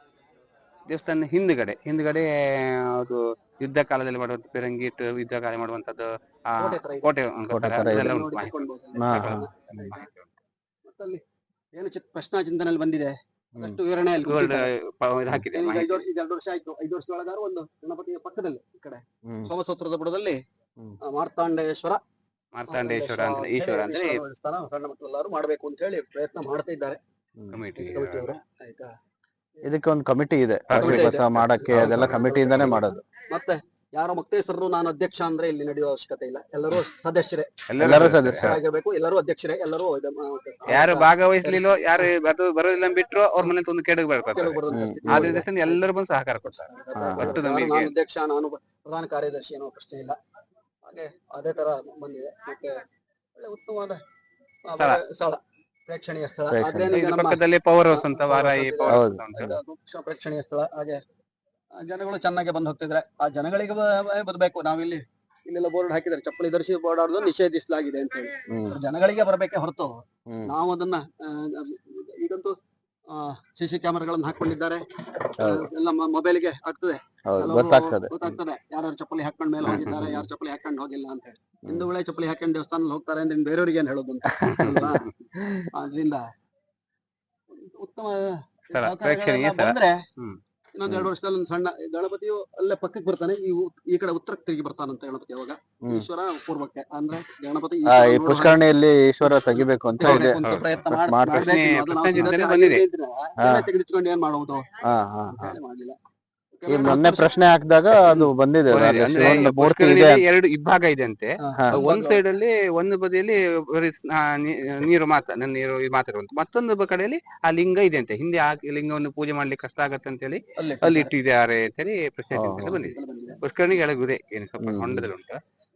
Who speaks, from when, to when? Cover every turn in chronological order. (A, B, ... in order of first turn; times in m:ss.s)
0:00.9-0:10.3 A
0:06.6-0:07.1 B
0:07.5-0:08.2 C
0:07.8-0:10.0 B
0:09.0-0:09.9 C
0:10.9-0:11.2 B
0:11.8-0:14.7 B
0:14.2-0:16.0 A
0:15.5-0:20.4 B
0:19.3-0:19.5 C
0:21.1-0:22.0 B
0:22.5-0:24.2 A
0:22.7-0:27.0 B
0:27.5-0:28.3 A
0:27.8-0:28.9 B
0:29.6-0:33.0 C
0:30.7-0:32.7 A
0:30.7-0:42.1 B
0:37.7-0:38.5 A
0:37.8-0:38.6 C
0:40.7-0:47.9 A
0:44.2-0:45.9 B
0:44.7-0:45.4 C
0:46.5-0:50.2 B
0:47.0-0:47.4 C
0:50.9-0:52.8 B
0:53.4-0:54.0 B
0:54.7-1:01.0 B
0:56.5-0:57.0 C
0:56.9-0:59.6 A
0:58.9-0:59.6 C
1:01.9-1:10.0 B
1:08.5-1:08.8 C
1:10.5-1:12.5 B
1:13.1-1:25.1 B
1:15.4-1:15.7 C
1:17.3-1:18.4 C
1:19.6-1:20.3 C
1:19.7-1:20.1 A
1:24.4-1:25.1 A
1:24.5-1:25.7 C
1:25.7-1:26.2 B
1:27.6-1:30.0 B
1:28.7-1:30.4 A
1:30.8-1:38.6 B
1:30.9-1:31.1 C
1:37.8-1:41.6 C
1:39.2-1:44.7 B
1:40.0-1:40.7 A
1:41.3-1:42.8 A
1:43.4-1:43.7 C
1:44.8-1:45.6 C
1:45.3-1:46.0 B
1:46.6-1:47.4 B
1:46.7-1:50.2 C
1:48.7-2:05.4 A
1:51.4-1:52.2 B
2:00.6-2:01.1 B
2:02.3-2:02.8 C
2:02.7-2:03.4 B
2:04.6-2:05.1 C